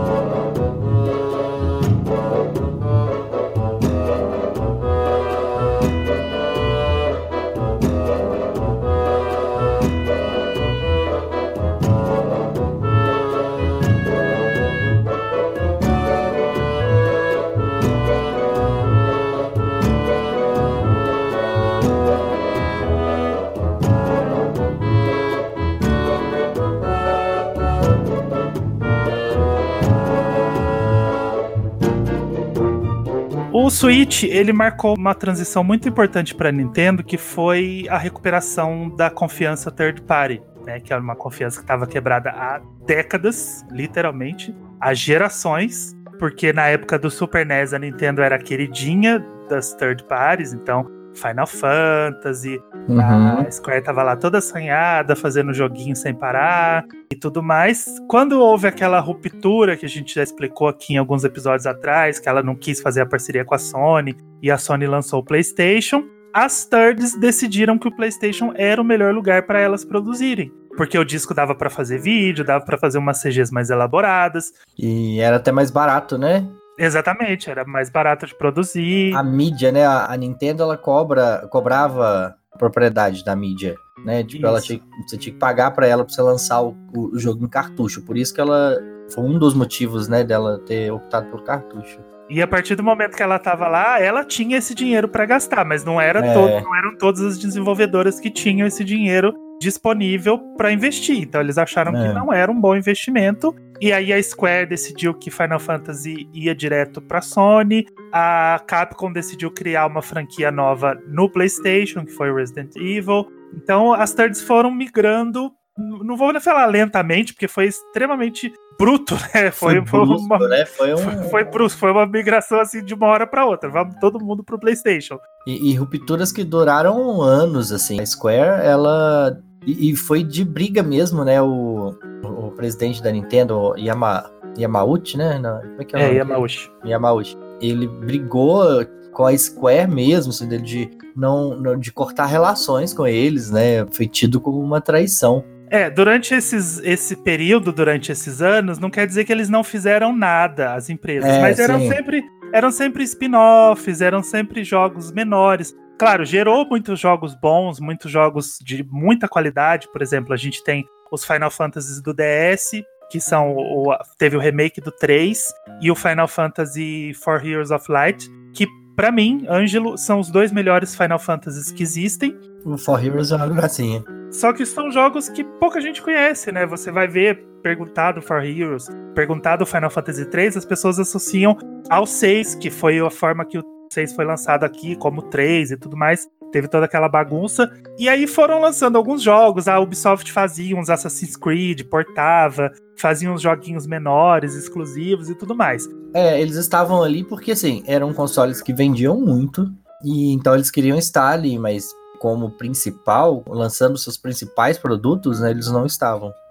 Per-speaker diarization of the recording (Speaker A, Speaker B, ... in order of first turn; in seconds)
Speaker A: 33.5-74.5, 76.8-79.2, 84.3-84.8, 92.3-125.2, 135.9-136.7, 145.7-172.4, 174.3-195.9
Speaker B: 52.9-53.5, 74.8-76.5, 79.1-92.0, 96.2-96.7, 101.9-102.3, 119.6-121.4, 125.5-145.5, 151.2-152.0, 172.6-174.1, 196.1-206.4